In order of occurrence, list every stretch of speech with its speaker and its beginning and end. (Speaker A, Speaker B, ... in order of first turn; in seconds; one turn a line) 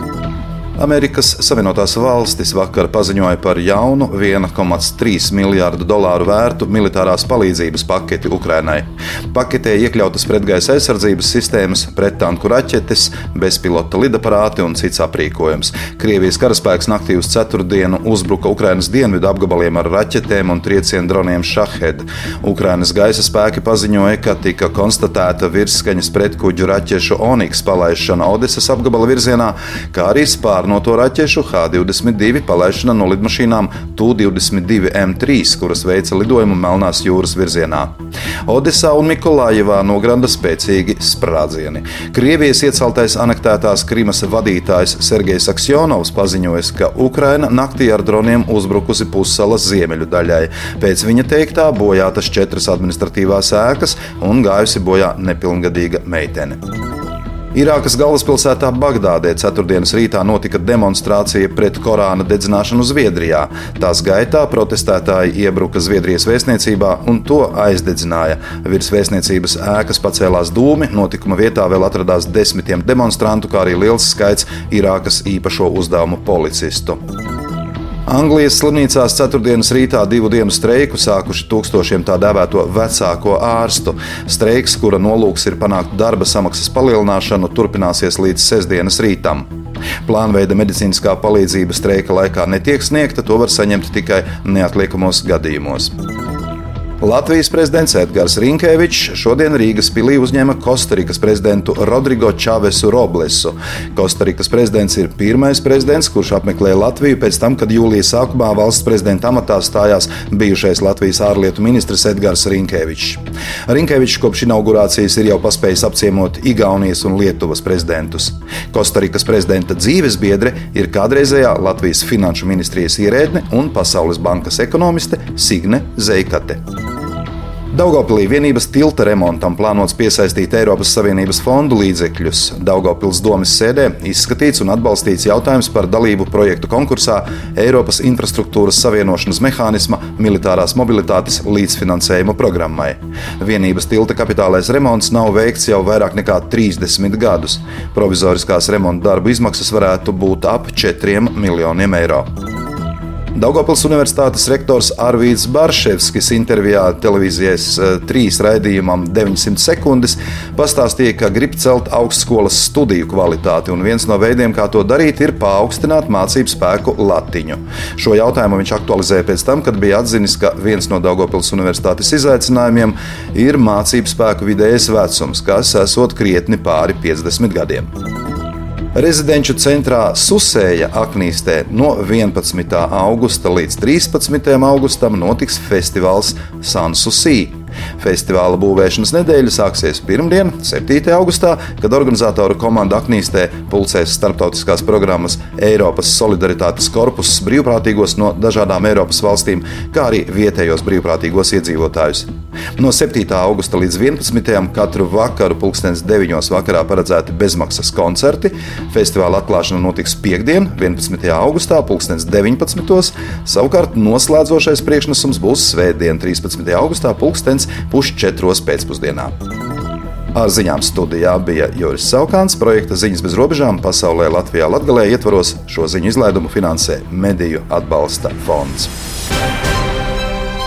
Speaker A: 0.8-37.9
Speaker A: 38.5-56.6
Speaker A: 57.5-77.0
Speaker A: 78.1-89.5
Speaker A: 90.0-95.9
Speaker A: 97.0-126.6
Speaker A: 127.7-152.2
Speaker A: 153.3-177.9
Speaker A: 178.9-219.3
Speaker A: 220.3-228.9